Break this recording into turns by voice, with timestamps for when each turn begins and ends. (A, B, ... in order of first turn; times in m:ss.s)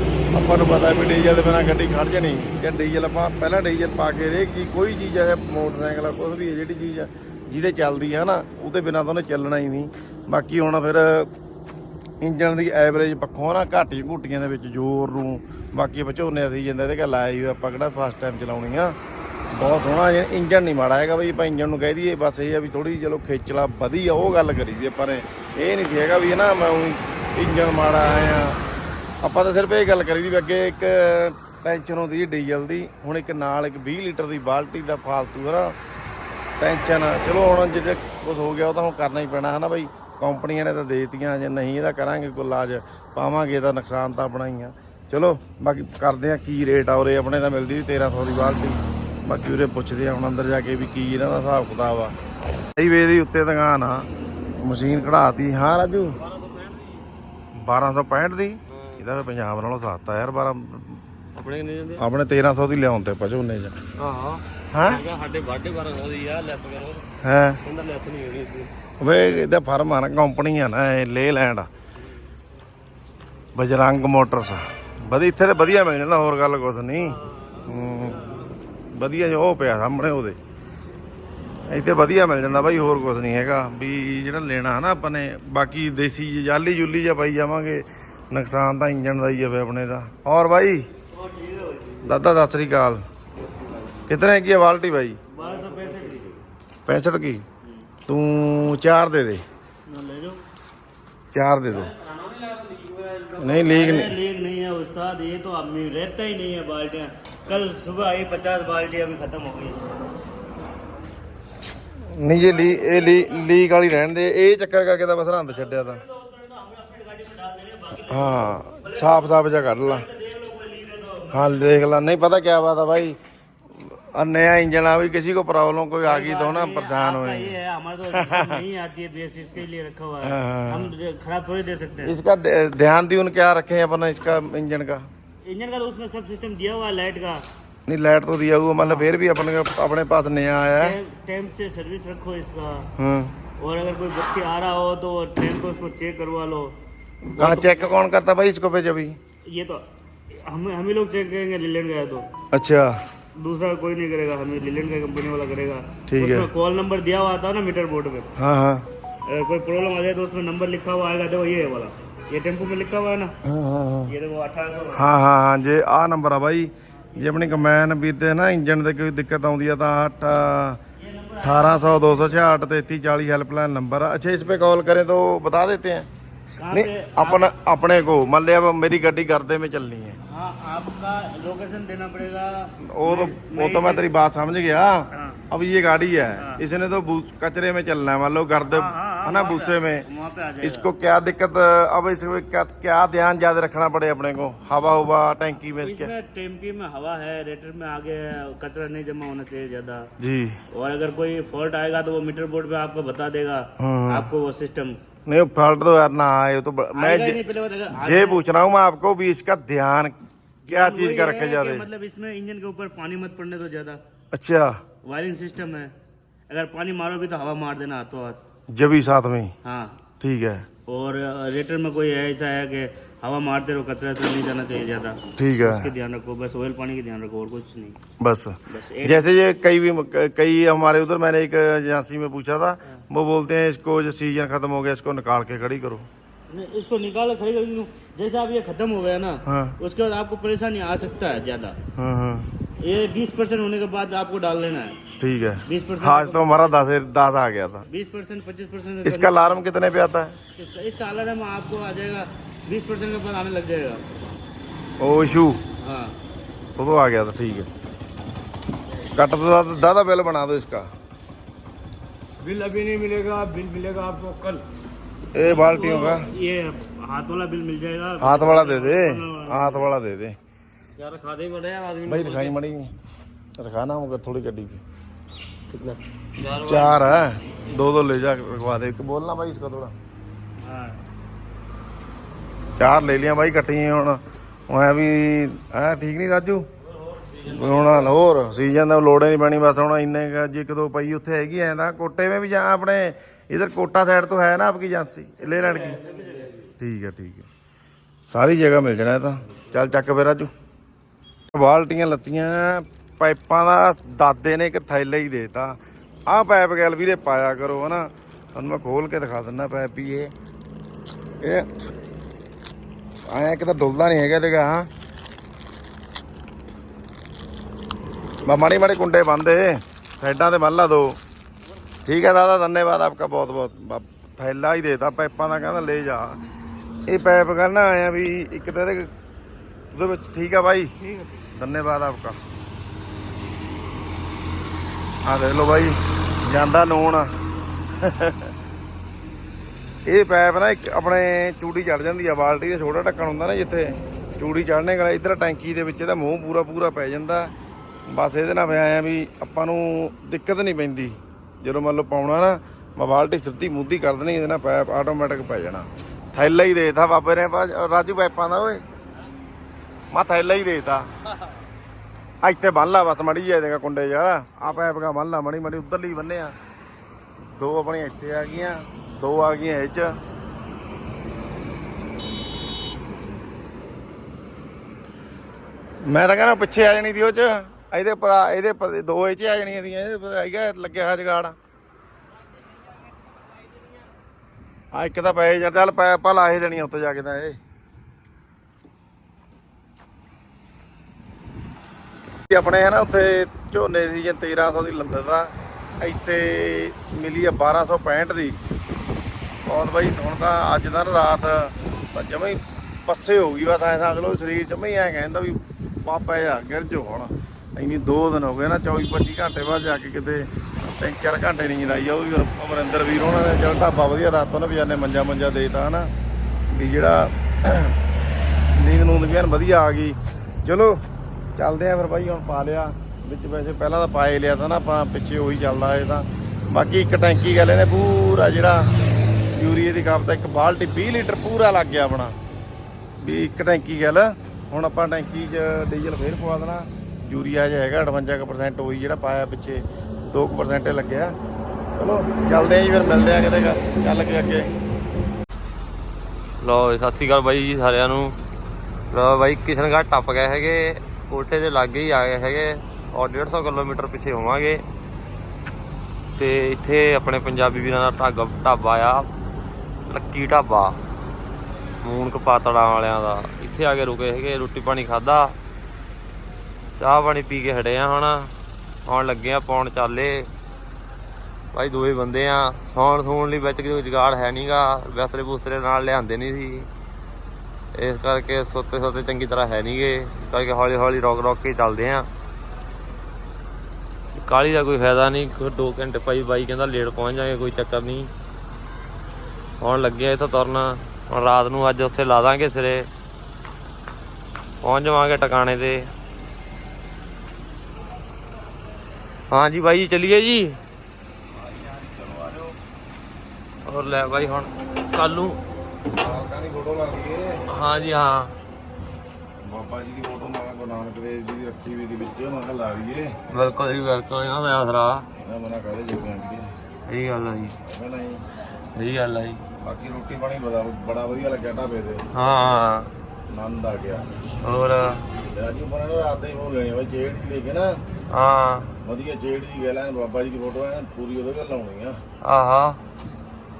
0:00.3-0:11.3 A
0:12.2-0:18.9 A
0:19.5-0:28.6 A
0:29.2-0:35.7 A
0:36.6-0:52.1 A
0:52.8-0:54.1 A
0:54.6-0:56.2 A
0:56.2-0:57.0 B
0:57.6-1:01.0 A
0:58.7-0:59.0 B
1:01.3-1:02.0 B
1:02.0-1:03.7 A
1:04.0-1:07.0 B
1:04.7-1:05.0 A
1:07.2-1:07.6 A
1:07.6-1:08.7 B
1:09.0-1:11.7 A
1:13.6-1:18.2 A
1:17.0-1:18.4 B
1:18.9-1:20.4 A
1:21.7-1:30.8 A
1:31.1-1:32.1 C
1:32.0-1:33.0 A
1:34.1-1:35.2 A
1:35.3-1:36.4 C
1:36.9-1:37.4 A
1:38.1-1:39.4 A
1:39.9-1:40.4 C
1:41.3-1:41.9 A
1:41.7-1:43.9 B
1:43.4-1:44.1 A
1:43.6-1:50.0 C
1:52.1-1:56.0 A
1:55.8-2:01.6 C
1:58.1-2:00.0 A
2:01.3-2:03.2 A
2:03.8-2:07.5 A
2:06.0-2:12.2 C
2:08.1-2:08.6 A
2:10.2-2:10.9 A
2:12.0-2:15.0 A
2:15.4-2:17.4 C
2:17.9-2:21.0 A
2:18.8-2:19.1 C
2:20.8-2:22.9 C
2:23.0-2:23.3 A
2:23.6-2:26.7 C
2:27.3-2:28.0 C
2:27.4-2:29.2 A
2:29.5-2:29.8 C
2:30.4-2:32.3 C
2:32.5-2:33.0 A
2:33.4-2:38.3 C
2:36.1-2:36.5 A
2:38.4-2:38.8 A
2:39.3-2:43.3 C
2:43.4-2:44.1 A
2:44.1-2:45.0 C
2:44.9-2:50.8 A
2:51.0-2:51.9 C
2:51.4-2:56.1 A
2:56.6-2:57.5 C
2:56.7-3:00.2 A
3:00.3-3:04.1 C
3:02.8-3:10.0 A
3:05.1-3:05.4 C
3:06.4-3:06.6 C
3:08.7-3:10.9 C
3:10.6-3:16.1 A
3:15.7-3:20.1 C
3:20.2-3:20.6 A
3:20.7-3:24.9 C
3:23.8-3:24.3 A
3:25.3-3:27.4 A
3:26.9-3:28.4 C
3:28.0-3:30.2 A
3:30.6-3:34.0 C
3:30.7-3:31.8 A
3:34.3-3:34.8 A
3:35.0-3:35.9 C
3:36.5-3:38.4 C
3:38.7-3:39.5 A
3:39.6-3:40.0 C
3:40.2-3:40.7 A
3:40.9-3:48.0 C
3:45.4-3:45.9 A
3:48.2-3:56.1 A
3:48.7-3:49.3 C
3:56.5-4:01.8 C
3:59.4-3:59.8 A
4:02.0-4:02.5 A
4:02.8-4:05.0 C
4:05.2-4:07.9 A
4:05.6-4:06.9 C
4:07.9-4:09.6 C
4:09.0-4:10.3 A
4:10.6-4:14.0 C
4:15.0-4:15.6 A
4:15.8-4:16.2 C
4:16.8-4:17.7 A
4:19.1-4:20.9 A
4:22.4-4:24.6 C
4:25.3-4:26.2 A
4:25.4-4:29.9 C
4:28.2-4:30.3 A
4:31.0-4:32.5 B
4:32.1-4:32.9 A
4:33.6-4:34.8 A
4:35.7-4:37.2 B
4:36.6-4:39.9 A
4:40.6-4:41.0 C
4:42.8-4:46.6 A
4:46.8-4:48.1 B
4:47.5-4:56.0 A
4:55.4-4:56.6 C
4:55.6-4:56.6 B
4:56.8-4:57.5 A
4:58.3-5:00.5 A
5:01.5-5:10.3 A
5:11.4-5:11.7 A
5:13.3-5:14.9 A
5:18.4-5:21.2 A
5:22.0-5:26.4 A
5:27.1-5:29.1 A
5:29.9-5:30.9 A
5:31.0-5:31.5 C
5:31.5-5:32.4 A
5:35.3-5:37.3 A
5:38.0-5:38.5 A
5:40.1-5:47.5 A
5:48.1-5:58.8 A
6:00.1-6:01.1 A
6:02.4-6:06.5 A
6:07.6-6:10.2 A
6:16.0-6:21.6 A
6:24.9-6:27.6 A
6:32.5-6:38.5 A
6:39.6-6:50.5 A
6:51.0-6:56.1 A
6:56.7-6:57.9 A
6:58.8-7:01.0 A
7:01.6-7:08.9 A
7:09.6-7:12.4 A
7:13.2-7:21.3 A
7:22.0-7:24.7 A
7:26.6-7:28.4 B
7:29.1-7:34.8 B
7:36.4-7:39.3 B
7:40.1-7:41.0 B
7:42.0-7:45.5 B
7:47.0-7:48.5 B
7:49.0-7:50.5 B
7:51.7-7:56.9 B
7:57.9-8:02.3 B
8:04.4-8:08.3 B
8:09.8-8:13.1 B
8:14.8-8:16.1 B
8:19.5-8:20.8 B
8:21.6-8:22.8 A
8:23.9-8:25.6 B
8:26.2-8:27.6 A
8:27.7-8:28.5 B
8:29.6-8:33.3 A
8:33.5-8:35.2 B
8:35.3-8:36.7 A
8:37.1-8:37.8 B
8:37.8-8:38.4 A
8:39.0-8:39.6 B
8:39.8-8:42.2 A
8:42.3-8:43.1 B
8:43.5-8:44.3 A
8:44.6-8:45.2 B
8:45.5-8:47.9 A
8:48.3-8:48.9 B
8:49.0-8:52.2 A
8:52.4-8:53.0 B